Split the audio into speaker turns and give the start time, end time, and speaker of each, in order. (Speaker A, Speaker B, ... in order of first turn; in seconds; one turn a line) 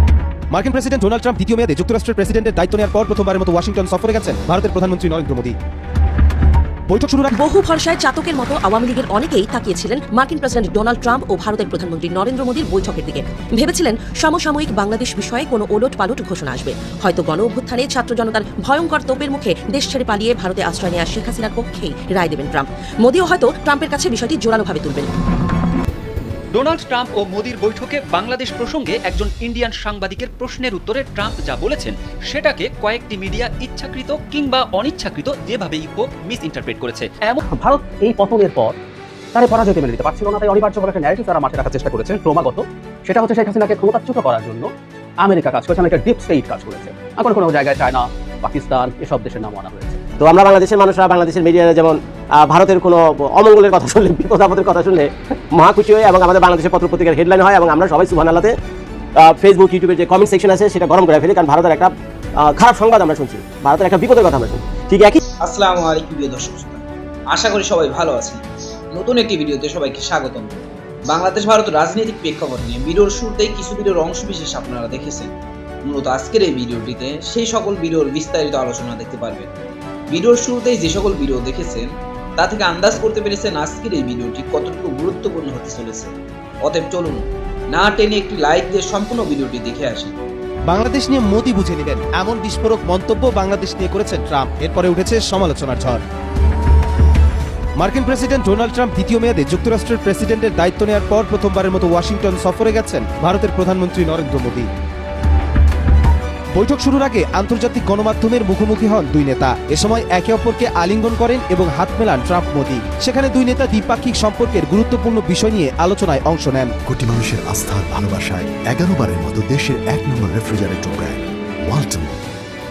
Speaker A: 0.5-5.5
Speaker A: 6.9-7.3
Speaker B: 7.4-25.1
Speaker C: 26.5-37.4
Speaker D: 37.4-38.8
Speaker D: 39.3-44.7
Speaker D: 45.2-50.0
Speaker E: 50.2-58.6
Speaker E: 59.2-65.2
Speaker F: 65.4-66.8
Speaker F: 67.3-68.4
Speaker F: 69.0-70.6
Speaker F: 71.1-75.3
Speaker F: 75.9-79.5
Speaker F: 80.1-81.9
Speaker F: 82.4-86.1
Speaker F: 86.7-87.2
Speaker F: 87.8-90.1
Speaker A: 90.7-96.0
Speaker A: 97.8-104.7
Speaker A: 106.6-116.8
Speaker G: 116.8-122.2